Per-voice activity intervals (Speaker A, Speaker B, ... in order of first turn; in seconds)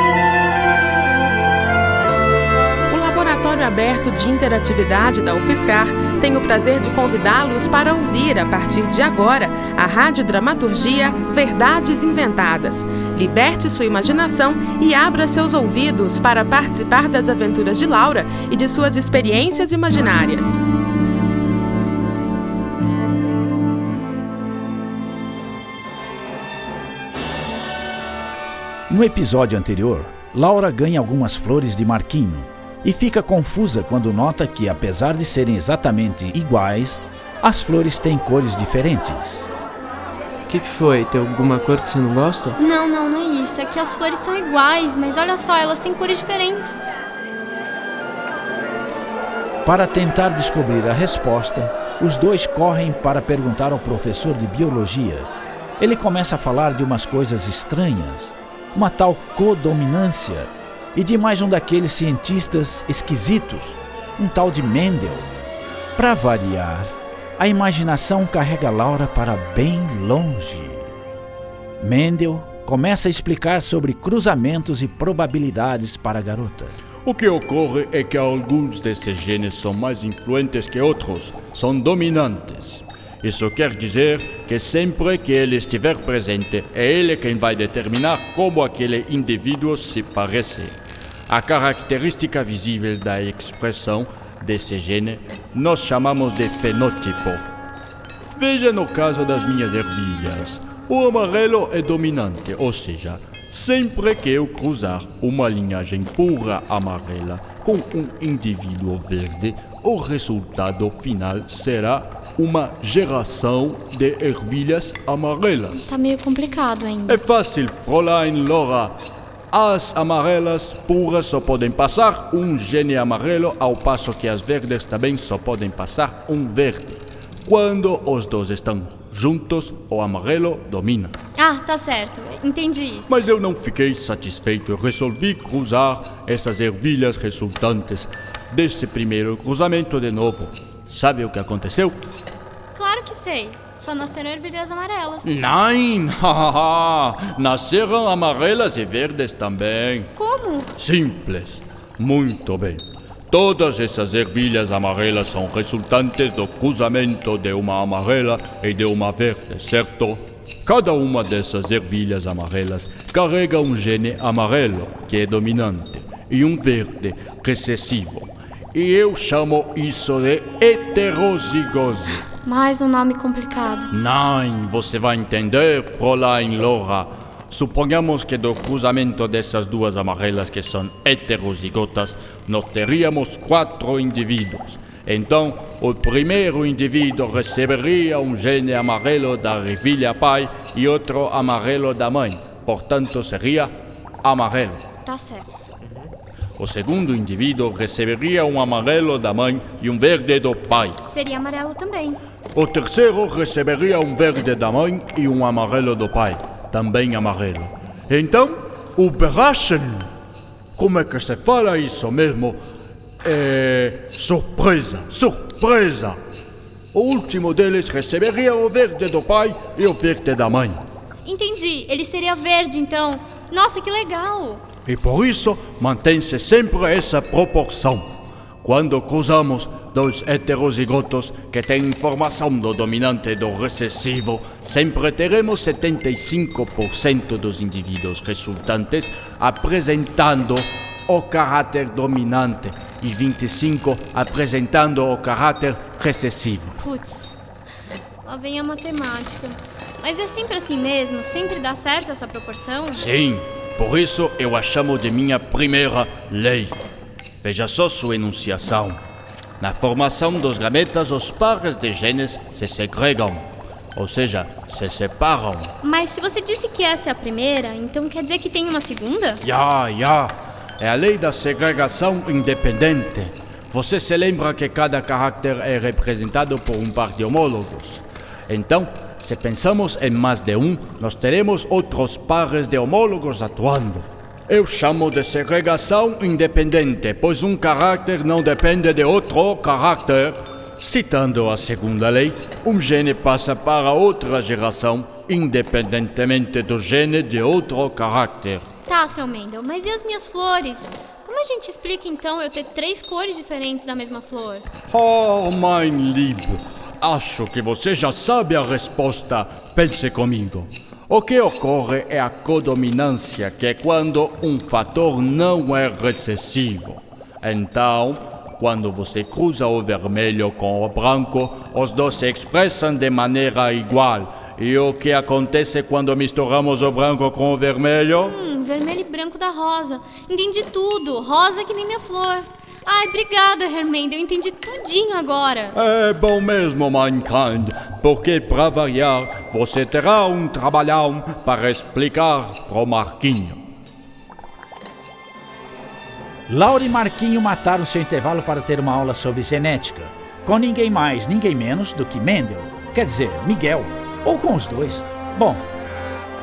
Speaker A: 2.9-20.6
Speaker B: 28.9-39.5, 49.6-55.3, 55.8-65.3, 66.0-70.8, 71.8-76.8, 346.5-355.6
Speaker C: 40.5-42.5
Speaker D: 42.6-46.8, 115.7-117.2, 131.3-133.2, 142.7-145.3, 150.2-150.7, 172.4-173.9, 195.0-195.5, 201.0-202.2, 221.2-224.6, 246.8-247.3, 248.2-253.1, 265.8-269.4, 298.9-304.6, 328.2-335.7
Speaker E: 77.0-97.5, 98.3-115.9, 117.1-119.0, 119.5-131.1, 133.1-142.0, 145.2-150.1, 150.8-172.2, 173.9-193.7, 194.2-194.8, 196.6-201.0, 202.5-210.1, 210.8-212.6, 213.2-216.2, 216.9-220.8, 224.8-246.8, 252.9-256.8, 257.4-259.0, 259.6-265.7, 269.4-298.6, 304.9-328.3, 335.7-343.6